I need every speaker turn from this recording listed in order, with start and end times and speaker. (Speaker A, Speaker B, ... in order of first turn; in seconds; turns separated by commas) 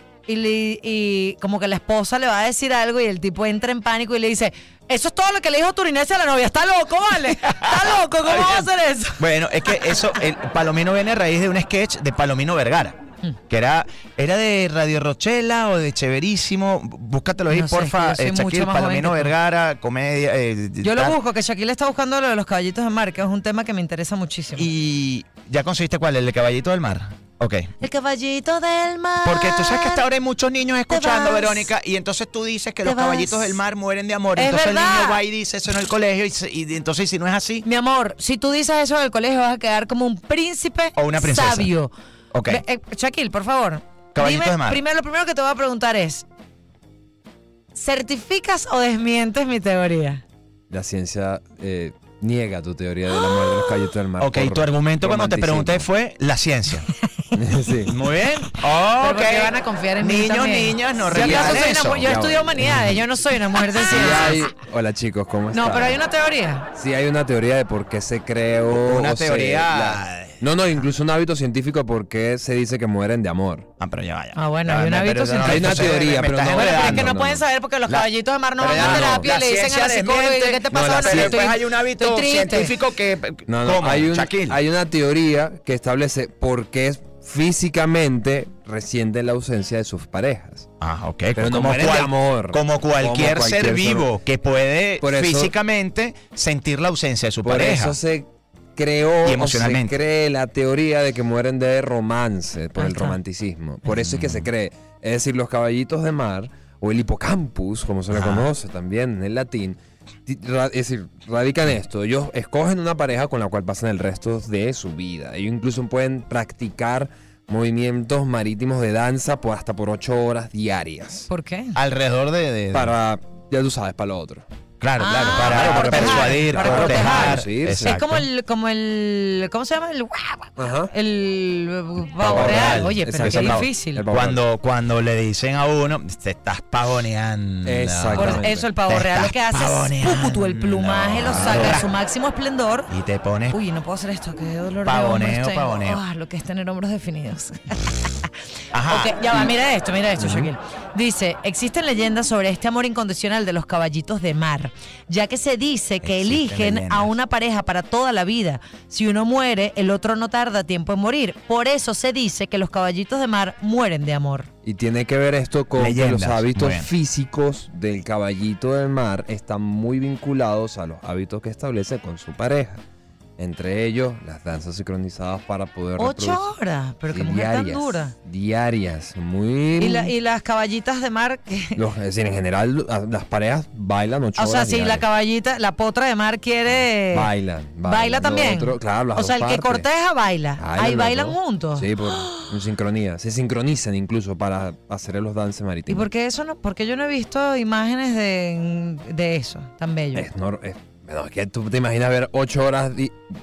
Speaker A: 0.3-10.1, Speaker B: 7.4-8.7, Speaker B: 9.2-12.9, Speaker B: 13.5-21.2, Speaker A: 17.5-19.3, Speaker A: 20.8-24.7, Speaker B: 24.6-27.7, Speaker A: 27.8-30.0, Speaker B: 29.2-37.6, Speaker A: 30.9-31.7, Speaker A: 32.8-33.5, Speaker A: 34.4-35.2, Speaker A: 37.6-41.9, Speaker B: 41.0-41.7, Speaker B: 42.3-42.6, Speaker A: 42.5-46.2, Speaker B: 44.1-44.8, Speaker A: 47.8-50.2, Speaker C: 50.7-55.9, Speaker A: 53.1-53.8, Speaker B: 54.2-56.9, Speaker C: 57.3-57.9, Speaker B: 57.9-62.1, Speaker A: 58.8-64.4, Speaker C: 61.1-63.1, Speaker C: 63.8-66.0, Speaker A: 65.5-66.7, Speaker C: 66.7-73.7, Speaker B: 68.7-70.4, Speaker B: 73.8-77.1, Speaker A: 74.3-82.7, Speaker C: 75.4-77.4, Speaker B: 77.9-84.6, Speaker C: 78.7-79.3, Speaker C: 80.7-81.5, Speaker C: 83.5-90.7, Speaker B: 90.8-98.0, Speaker C: 91.3-94.1, Speaker C: 95.0-95.5, Speaker C: 97.4-121.3, Speaker B: 99.2-99.9, Speaker A: 102.8-103.2, Speaker B: 103.9-104.5, Speaker B: 108.1-108.5, Speaker A: 121.3-121.8, Speaker B: 121.8-122.9, Speaker C: 122.7-124.4, Speaker B: 124.8-128.2, Speaker A: 125.0-134.1, Speaker C: 125.1-128.0, Speaker C: 130.6-130.9, Speaker B: 132.2-141.9, Speaker C: 132.2-134.4, Speaker C: 137.6-138.6, Speaker A: 138.1-142.9, Speaker B: 142.9-143.6, Speaker A: 143.5-164.5, Speaker B: 144.8-146.0, Speaker B: 148.7-149.5, Speaker C: 150.2-150.5, Speaker B: 156.0-157.1, Speaker C: 164.6-172.8, Speaker B: 165.8-166.9, Speaker C: 173.4-176.5, Speaker A: 176.0-178.1, Speaker C: 177.1-180.1, Speaker A: 179.8-181.8, Speaker C: 181.7-185.0, Speaker A: 184.3-187.3, Speaker C: 187.1-189.8, Speaker A: 187.8-192.6, Speaker C: 190.6-196.1, Speaker A: 195.9-200.3, Speaker C: 200.1-203.2